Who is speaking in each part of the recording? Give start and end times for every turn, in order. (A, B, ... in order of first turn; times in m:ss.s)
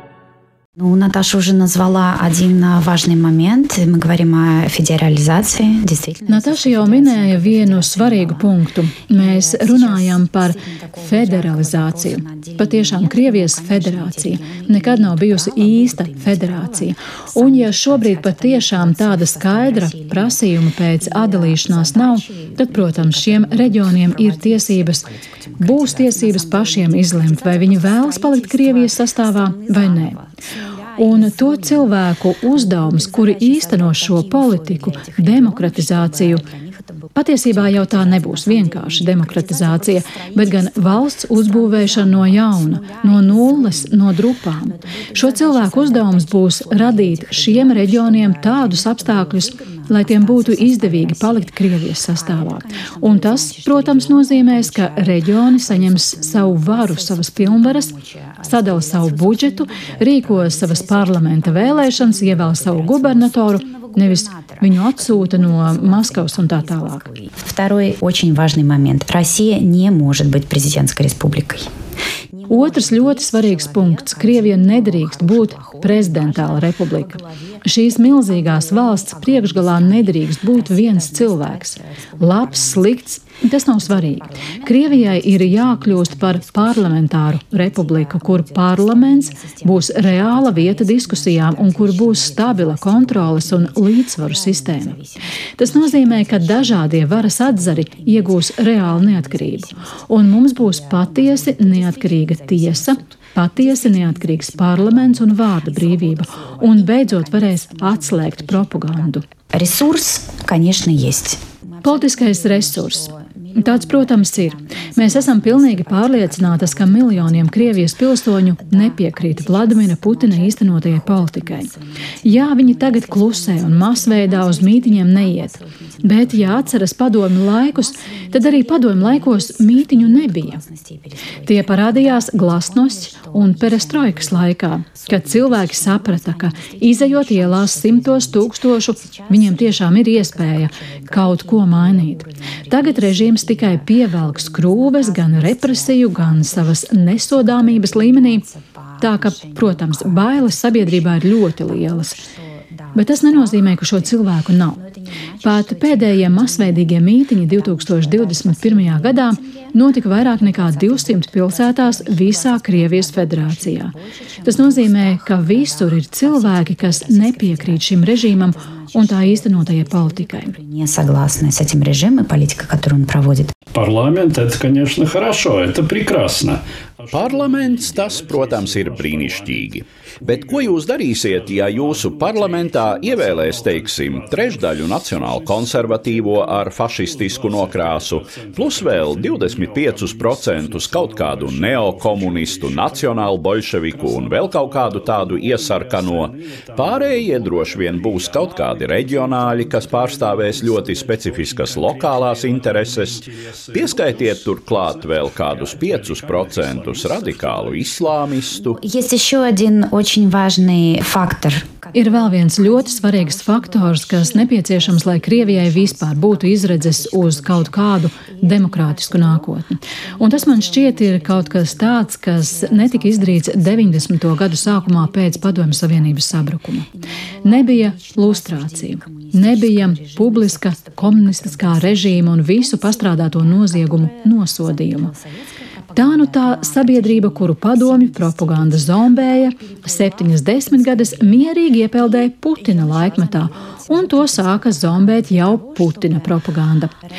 0:00.8-0:06.3 A
0:06.3-0:30.2 B
0:31.0-0:36.5 B
0:37.2-1:07.1 B
1:07.2-1:11.7 A
1:12.5-1:35.0 B
1:35.6-1:49.2 B
1:49.5-1:51.4 A
1:51.8-2:10.6 B
2:11.4-2:32.2 B
2:32.9-2:34.8 B
2:35.4-2:50.6 B
2:50.6-2:53.5 A
2:53.7-2:56.6 C
2:57.1-3:28.8 D
3:28.7-3:31.8 A
3:31.9-3:46.9 B
3:47.4-3:55.1 B
3:56.0-4:07.0 B